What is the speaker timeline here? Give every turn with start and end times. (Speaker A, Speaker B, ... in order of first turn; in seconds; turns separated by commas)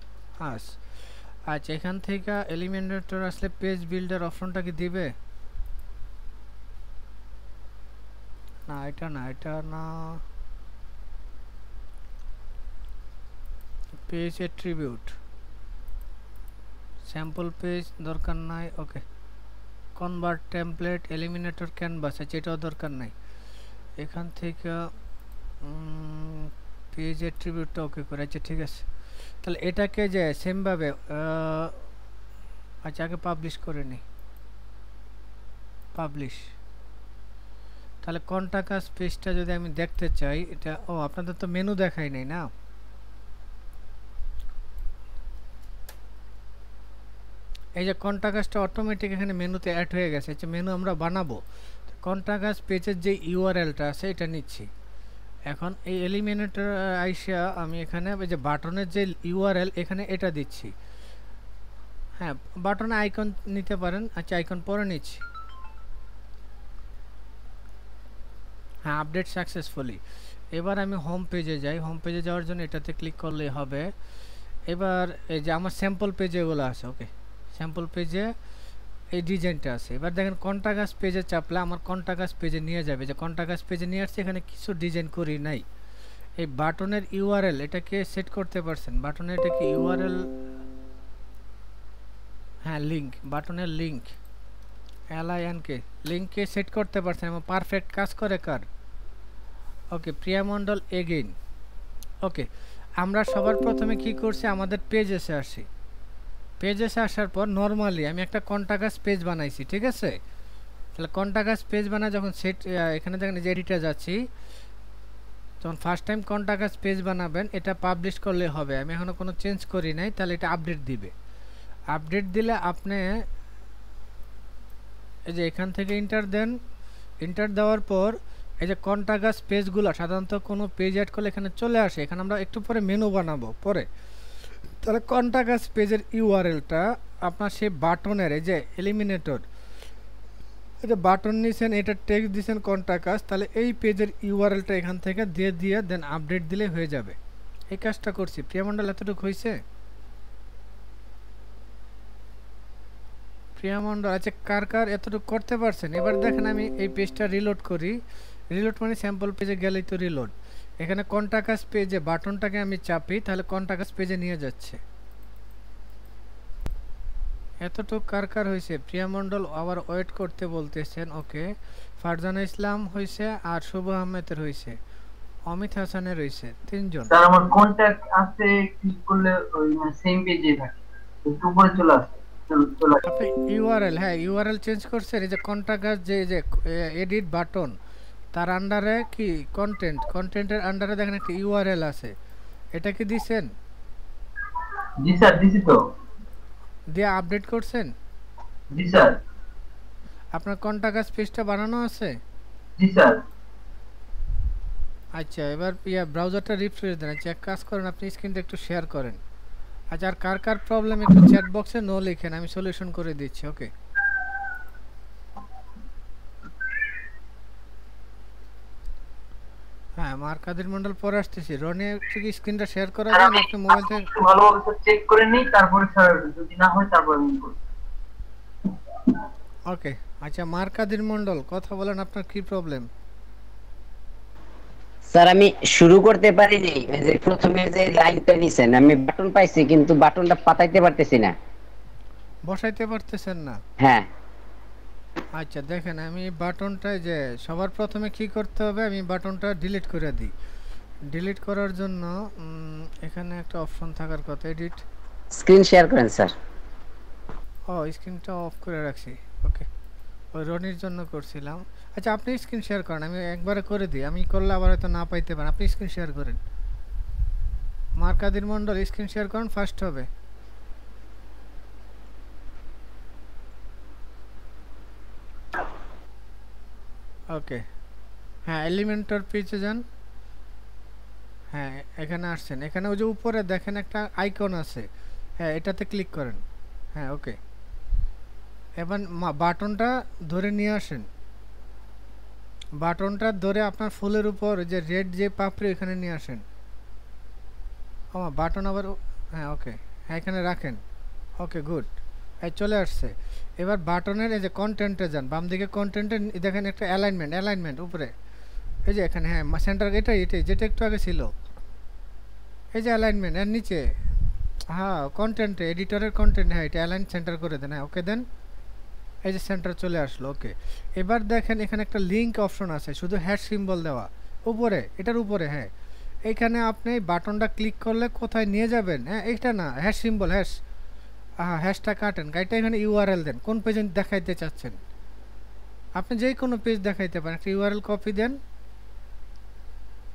Speaker A: 0.4-0.8, Speaker A: 1.5-5.1, Speaker A: 8.7-10.2, Speaker A: 14.1-15.1, Speaker A: 17.1-19.0, Speaker A: 20.0-23.1, Speaker A: 24.0-24.9, Speaker A: 25.6-28.9, Speaker A: 29.4-31.8, Speaker A: 32.8-34.0, Speaker A: 36.0-36.5, Speaker A: 38.0-42.5, Speaker A: 47.8-54.7, Speaker A: 55.5-60.7, Speaker A: 62.2-65.2, Speaker A: 68.8-70.0, Speaker A: 70.5-73.9, Speaker A: 74.7-78.3, Speaker A: 79.1-85.6, Speaker A: 86.4-90.2, Speaker A: 92.6-94.1, Speaker A: 95.1-98.7, Speaker A: 99.9-101.3, Speaker A: 103.0-105.7, Speaker A: 106.6-110.2, Speaker A: 111.0-114.2, Speaker A: 115.6-121.1, Speaker A: 121.9-123.0, Speaker A: 125.3-126.6, Speaker A: 127.2-133.9, Speaker A: 134.8-139.4, Speaker A: 140.8-147.2, Speaker A: 147.7-149.6, Speaker A: 153.6-158.0, Speaker A: 158.5-164.8, Speaker A: 167.6-171.5, Speaker A: 172.0-174.8, Speaker A: 175.5-177.1, Speaker B: 177.1-183.0, Speaker A: 183.0-187.8, Speaker A: 188.3-192.1, Speaker A: 192.7-193.5, Speaker B: 195.0-195.8, Speaker A: 196.9-197.9, Speaker B: 198.7-199.2, Speaker A: 200.3-202.2, Speaker B: 202.8-203.2, Speaker A: 205.1-209.2, Speaker A: 209.9-213.7, Speaker A: 220.0-224.1, Speaker B: 223.1-227.6, Speaker A: 229.7-232.9, Speaker C: 235.1-241.3, Speaker A: 242.5-243.6, Speaker C: 243.8-244.1, Speaker A: 245.3-250.3, Speaker A: 251.1-254.8, Speaker C: 255.3-256.3, Speaker A: 257.7-259.7, Speaker A: 260.3-266.4, Speaker A: 268.0-270.1, Speaker A: 277.3-277.6, Speaker A: 278.5-279.8, Speaker A: 281.5-284.9, Speaker A: 285.4-286.4, Speaker A: 286.9-287.4, Speaker A: 288.8-291.1, Speaker A: 292.8-296.4, Speaker A: 298.1-300.8, Speaker A: 301.4-308.1, Speaker A: 308.9-311.3, Speaker A: 312.7-313.8, Speaker A: 314.7-318.2, Speaker A: 319.2-325.7, Speaker A: 326.2-330.5, Speaker A: 331.4-334.8, Speaker A: 335.9-338.4